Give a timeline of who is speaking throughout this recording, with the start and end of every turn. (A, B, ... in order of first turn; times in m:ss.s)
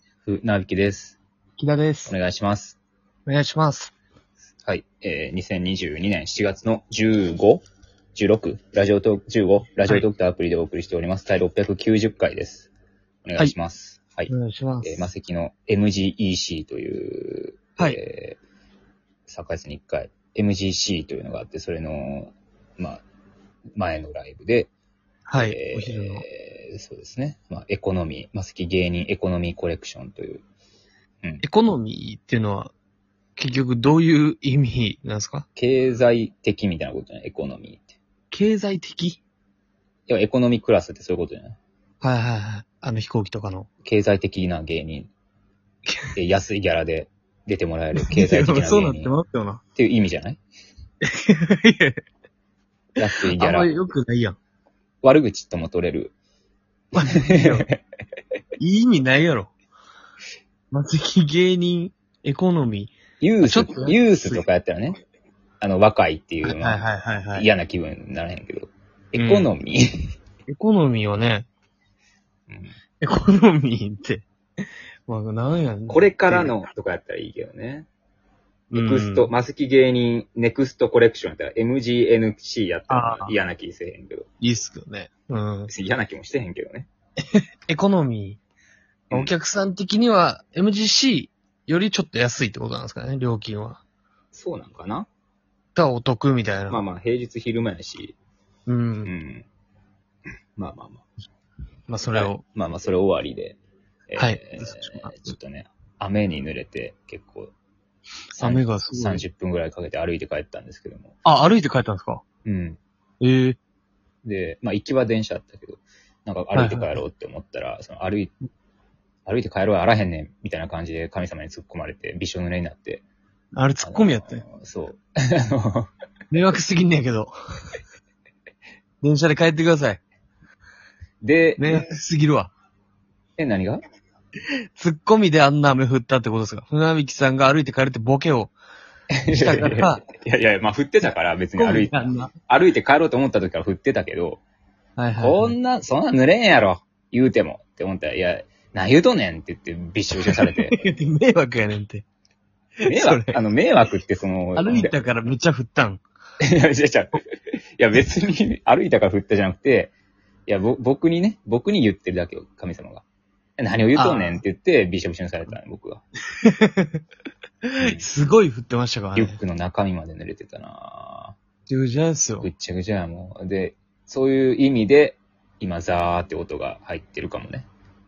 0:00.2-0:01.2 A
0:01.6-0:02.1 B
0:02.1-0:02.8 A
0:03.3-0:03.9 B
0:04.6-0:07.6 A
0:08.1-0:12.7 A
0:13.2-0:14.3 A
0:14.3-0:15.1 B
0:14.8-0:18.4 A
0:19.3-0:23.0 A
0:23.8-0:24.7 A
0:25.3-0:26.2 B
0:25.4-0:30.4 A
0:31.4-0:32.7 B
0:33.4-0:35.5 B
0:35.6-0:38.0 A
0:38.3-0:39.2 B
0:40.1-0:41.6 A
0:42.0-0:43.7 B
0:43.8-0:45.1 A
0:46.1-0:49.1 A
0:47.9-0:49.6 B
0:49.8-0:50.4 A
0:51.0-0:52.0 B
0:53.0-0:53.7 A
0:53.4-0:54.4 B
0:55.0-0:56.1 A
0:56.9-0:57.7 B
0:57.1-0:57.8 A
0:58.6-0:59.5 B
1:00.7-1:04.4 B
1:03.2-1:05.0 A
1:05.6-1:09.8 A
1:06.4-1:07.5 B
1:09.2-1:09.5 B
1:10.5-1:11.5 B
1:12.5-1:12.7 A
1:13.0-1:14.2 B
1:15.1-1:16.5 B
1:15.9-1:17.9 A
1:18.7-1:19.3 B
1:18.7-1:24.2 A
1:22.9-1:23.3 B
1:24.4-1:25.7 B
1:25.7-1:26.9 A
1:27.7-1:28.4 B
1:29.1-1:33.8 B
1:34.3-1:35.1 A
1:35.7-1:36.8 B
1:36.7-1:38.2 A
1:38.7-1:39.1 B
1:39.0-1:39.5 A
1:40.6-1:41.0 A
1:41.9-1:42.4 B
1:42.1-1:47.5 A
1:44.2-1:45.2 B
1:48.3-1:51.1 A
1:48.4-1:49.2 B
1:51.2-1:52.2 B
1:52.4-1:52.8 A
1:53.2-1:53.6 B
1:54.2-1:58.3 A
1:56.5-1:56.9 B
1:59.2-2:03.0 A
2:03.5-2:04.4 B
2:03.8-2:05.9 A
2:06.3-2:07.3 B
2:09.0-2:10.0 B
2:11.2-2:11.9 A
2:11.6-2:12.5 B
2:13.4-2:13.8 A
2:14.8-2:18.5 B
2:19.1-2:24.4 A
2:19.3-2:20.0 B
2:21.6-2:22.3 B
2:25.0-2:25.6 B
2:25.2-2:30.8 A
2:30.3-2:32.0 B
2:32.8-2:33.4 B
2:32.9-2:35.0 A
2:34.6-2:36.0 B
2:36.4-2:37.2 A
2:37.8-2:39.9 A
2:40.5-2:43.0 A
2:43.6-2:46.0 A
2:44.0-2:44.4 B
2:46.4-2:46.9 B
2:47.7-2:49.4 B
2:47.8-2:48.0 A
2:49.1-2:51.4 A
2:51.7-2:52.5 B
2:52.4-2:57.7 A